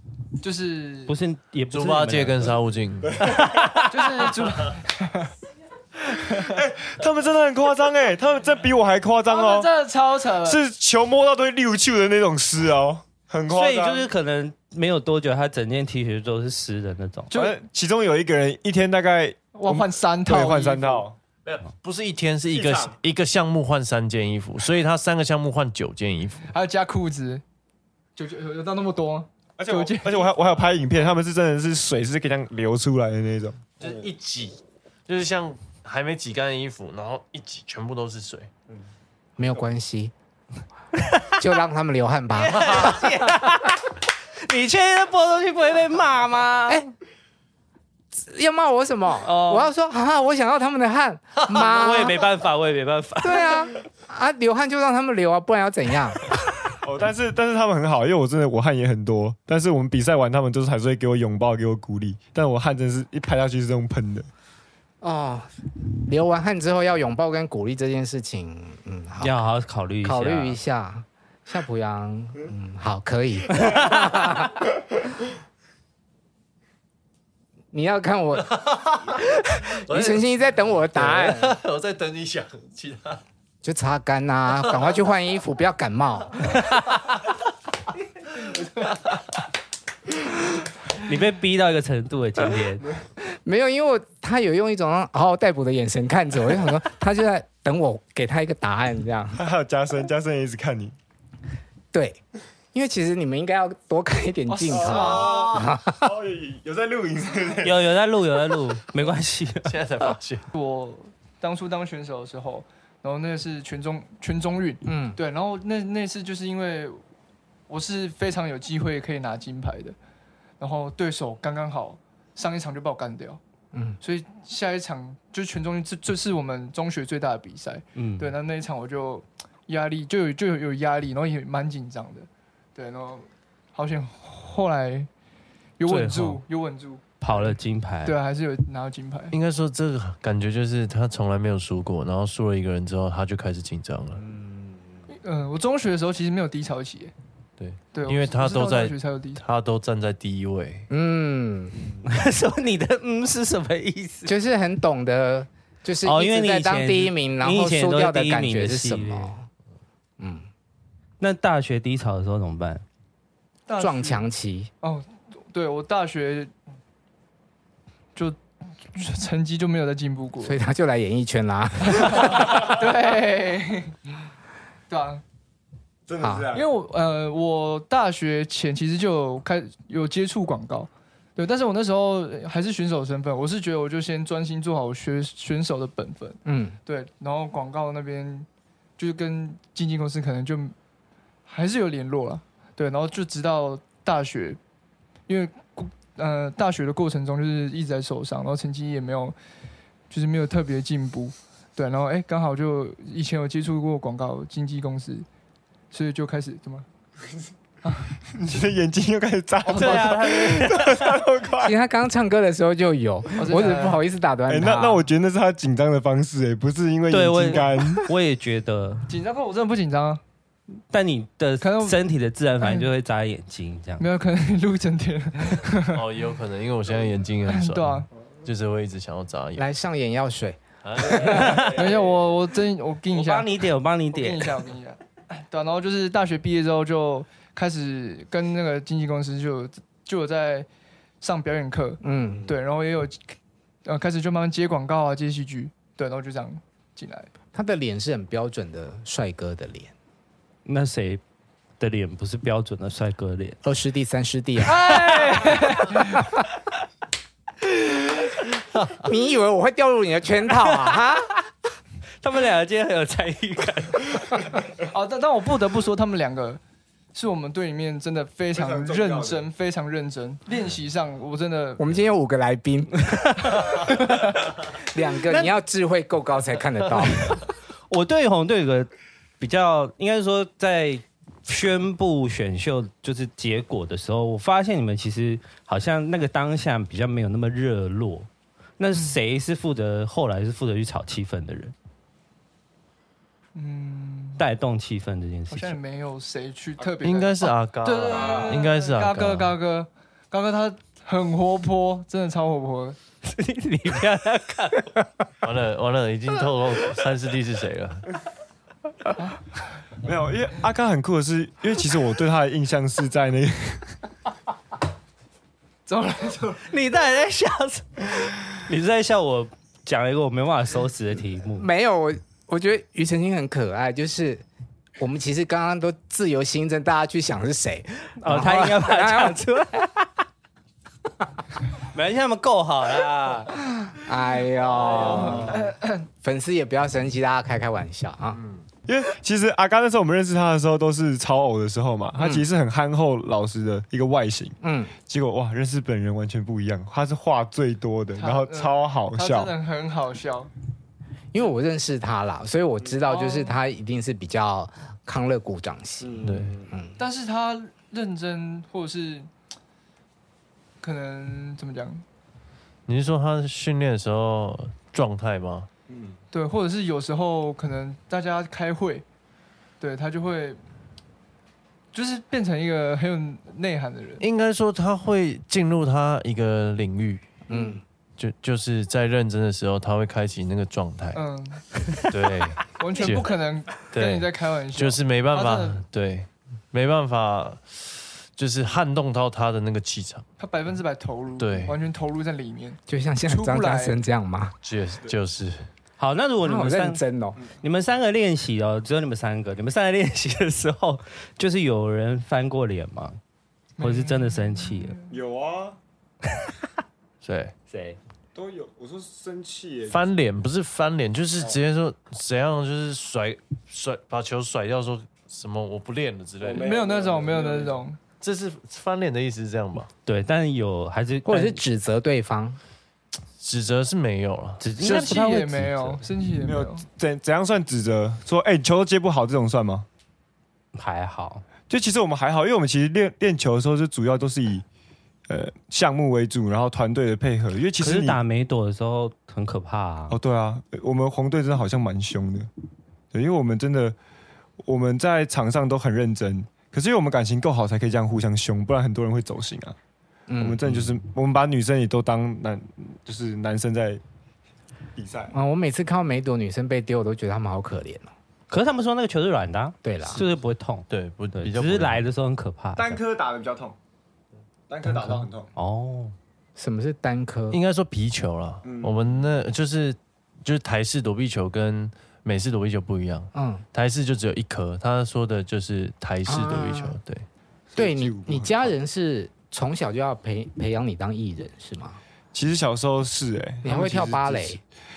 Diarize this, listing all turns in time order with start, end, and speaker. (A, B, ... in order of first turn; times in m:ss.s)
0:00.4-0:01.1 A
0:01.1-0:02.6 B
0:01.7-0:03.3 C
0:03.2-0:04.4 B
0:03.3-0:03.8 D
0:03.9-0:05.3 A
0:06.2-0:06.6 A
0:06.4-0:09.7 D
0:09.3-0:10.6 A
0:10.4-0:14.1 D
0:13.5-0:17.3 B
0:17.3-0:17.6 A
0:17.3-0:21.2 D
0:19.5-0:21.0 A
0:21.4-0:26.5 C
0:22.6-0:22.9 D
0:26.5-0:27.4 A
0:28.2-0:30.3 A
0:29.6-0:33.8 D
0:33.8-0:38.5 C
0:39.4-0:40.1 E
0:41.0-0:41.4 B
0:41.4-0:43.5 E
0:42.4-0:46.8 B
0:48.1-0:52.3 E
0:49.2-0:49.7 B
0:51.5-0:53.7 B
0:53.2-0:56.2 E
0:56.8-1:04.3 D
1:05.0-1:09.5 E
1:09.2-1:10.6 B
1:10.0-1:14.7 E
1:13.6-1:14.1 B
1:17.7-1:21.6 E
1:18.5-1:20.2 C
1:20.9-1:23.2 C
1:23.6-1:26.6 E
1:31.0-1:32.9 B
1:33.2-1:39.4 E
1:39.4-1:41.0 D
1:41.9-1:42.2 E
1:42.7-1:46.1 E
1:44.5-1:45.5 A
1:44.7-1:47.8 D
1:47.6-1:50.1 B
1:49.6-1:50.5 C
1:50.6-1:57.0 A
1:54.9-1:55.2 E
1:57.7-2:00.0 A
2:00.6-2:03.4 A
2:03.7-2:04.0 E
2:04.0-2:15.1 A
2:08.0-2:08.3 B
2:15.8-2:19.4 A
2:15.8-2:16.4 B
2:17.2-2:18.2 B
2:19.3-2:24.2 C
2:25.2-2:27.1 A
2:27.6-2:30.9 C
2:27.9-2:29.4 A
2:30.9-2:31.9 E
2:32.0-2:34.3 B
2:34.3-2:39.5 E
2:36.0-2:39.3 B
2:40.2-2:40.5 E
2:41.2-2:42.8 B
2:43.7-2:44.2 A
2:43.8-2:44.7 E
2:44.8-2:46.5 A
2:48.2-2:50.6 A
2:50.4-2:52.7 E
2:51.9-2:54.0 A
2:54.9-2:55.2 A
2:56.1-2:56.7 D
2:56.2-2:56.5 E
2:56.5-3:08.5 A
3:06.4-3:06.8 E
3:09.0-3:10.8 A
3:11.5-3:14.6 A
3:15.3-3:19.4 A
3:20.1-3:25.3 A
3:25.9-3:26.9 A
3:27.8-3:28.1 A
3:28.3-3:31.8 D
3:29.6-3:30.5 A
3:29.8-3:31.2 B
3:31.6-3:35.1 E
3:33.4-3:34.0 A
3:34.5-3:38.1 D
3:37.1-3:39.1 B
3:39.1-3:40.2 A
3:40.9-3:44.0 B
3:41.6-3:42.0 A
3:42.6-3:42.9 A
3:44.0-3:46.0 A
3:45.9-3:49.7 C
3:47.5-3:48.1 A
3:49.6-3:51.7 E
3:50.8-3:51.9 C
3:51.3-3:51.9 B
3:51.6-4:00.7 A
3:53.1-3:54.6 B
4:01.2-4:03.3 A
4:02.0-4:02.5 E
4:03.8-4:07.3 A
4:07.5-4:09.9 E
4:10.7-4:11.2 B
4:11.8-4:13.6 B
4:13.6-4:15.5 E
4:14.6-4:16.3 A
4:16.1-4:16.5 E
4:19.0-4:21.3 E
4:22.2-4:24.5 B
4:24.8-4:26.6 A
4:27.1-4:31.8 A
4:28.6-4:29.5 D
4:31.8-4:34.0 E
4:33.9-4:34.2 A
4:34.7-4:37.4 E
4:37.9-4:51.8 B
4:53.6-4:54.4 A
4:54.4-4:55.8 B
4:55.5-5:03.0 A
4:56.9-4:59.6 C
5:03.2-5:05.1 B
5:05.4-5:08.1 C
5:10.0-5:13.9 D
5:15.9-5:16.7 A
5:16.7-5:21.7 B
5:21.6-5:24.4 E
5:25.0-5:29.4 E
5:28.2-5:30.1 B
5:31.8-5:33.6 B
5:33.8-5:35.7 E
5:34.7-5:35.5 C
5:35.0-5:36.0 A
5:36.2-5:38.4 E
5:38.4-5:38.6 C
5:38.9-5:49.5 D
5:42.2-5:42.4 E
5:44.6-5:44.9 E
5:48.2-5:50.5 A
5:51.3-5:57.0 E
5:53.0-5:53.6 A
5:56.0-5:56.7 D
5:56.2-5:56.6 C
5:57.0-5:59.3 A
6:00.8-6:02.0 A
6:02.9-6:05.7 C
6:05.9-6:06.2 D
6:06.3-6:09.0 A
6:09.8-6:10.6 A
6:11.9-6:14.2 A
6:14.2-6:17.3 C
6:17.5-6:17.8 E
6:18.2-6:21.2 C
6:21.2-6:21.6 A
6:22.1-6:30.3 C
6:22.8-6:25.8 A
6:30.4-6:34.0 A
6:31.4-6:31.8 C
6:32.9-6:34.5 E
6:34.6-6:35.7 C
6:36.0-6:37.0 B
6:36.4-6:37.4 E
6:37.6-6:43.2 B
6:43.8-6:45.0 A
6:43.8-6:45.0 B
6:45.1-6:45.8 D
6:47.2-6:47.5 C
6:47.7-6:48.0 B
6:48.4-6:50.1 D
6:49.9-6:56.7 C
6:56.4-6:57.8 D
6:56.6-6:58.0 A
6:58.2-6:59.9 C
7:00.1-7:01.6 B
7:01.3-7:02.6 E
7:03.4-7:04.7 C
7:04.6-7:06.1 B
7:04.8-7:06.8 A
7:06.4-7:09.9 D
7:10.8-7:11.4 B
7:11.7-7:14.6 D
7:15.3-7:18.2 D
7:17.8-7:20.2 B
7:20.1-7:22.5 D
7:23.1-7:24.0 D
7:24.6-7:29.8 D
7:30.3-7:30.6 E
7:30.4-7:34.0 D
7:35.0-7:35.4 D
7:35.3-7:38.1 E
7:38.5-7:43.0 B
7:39.8-7:40.2 E
7:40.9-7:42.1 C
7:42.8-7:43.8 D
7:44.7-7:45.5 D
7:44.9-7:46.1 B
7:46.6-7:47.6 E
7:47.5-7:57.3 C
7:48.6-7:49.2 D
7:53.4-7:53.6 E
7:56.3-7:57.0 E
7:57.8-7:58.7 D
7:57.8-8:02.0 E
8:02.3-8:04.6 D
8:03.6-8:04.6 E